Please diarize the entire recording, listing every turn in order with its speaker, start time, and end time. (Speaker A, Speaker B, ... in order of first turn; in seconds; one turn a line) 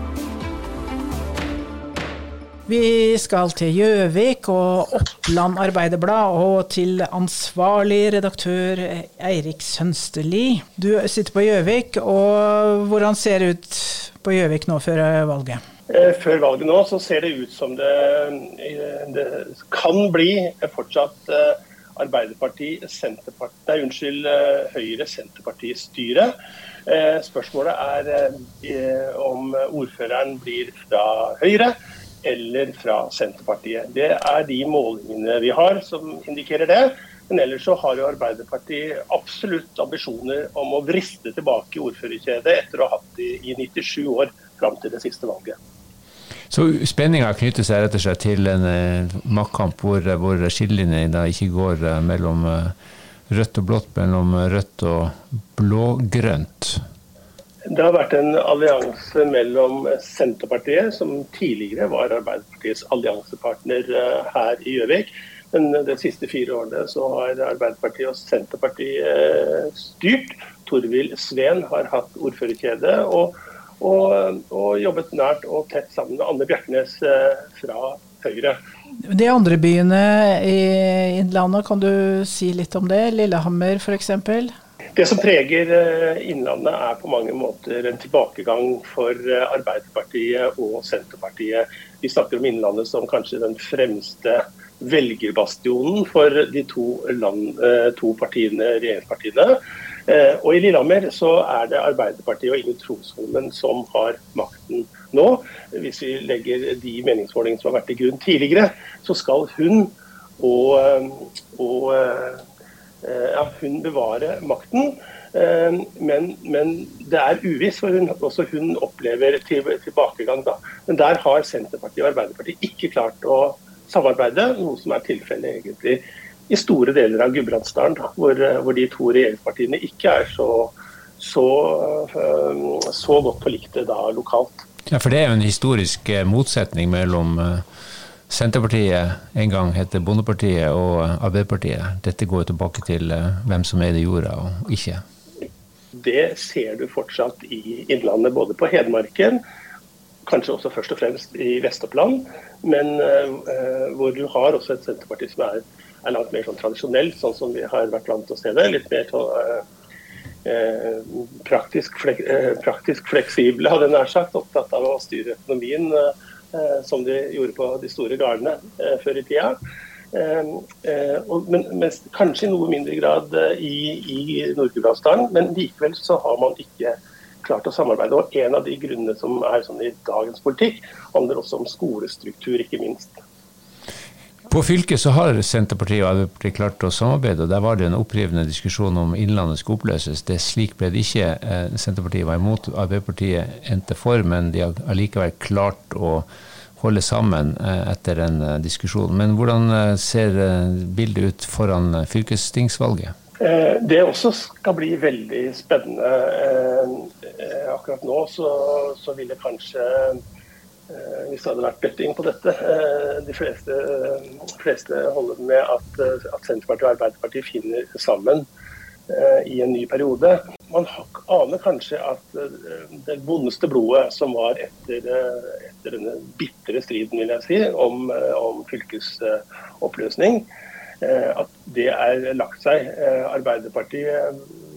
Speaker A: 2.7-15.6
Speaker B: 15.9-26.3
Speaker B: 26.9-45.6
Speaker C: 46.5-52.7
Speaker C: 53.3-56.8
Speaker B: 57.7-78.6
Speaker A: 79.0-84.5
Speaker B: 85.0-112.4
Speaker B: 113.0-134.6
Speaker C: 134.9-137.7
Speaker C: 138.3-145.0
Speaker B: 145.9-149.4
Speaker B: 150.2-159.6
Speaker B: 160.4-169.6
Speaker B: 170.1-183.2
Speaker C: 184.5-196.3
Speaker C: 196.8-203.1
Speaker B: 203.4-210.2
Speaker B: 210.9-218.5
Speaker B: 219.1-230.5
Speaker B: 231.0-234.4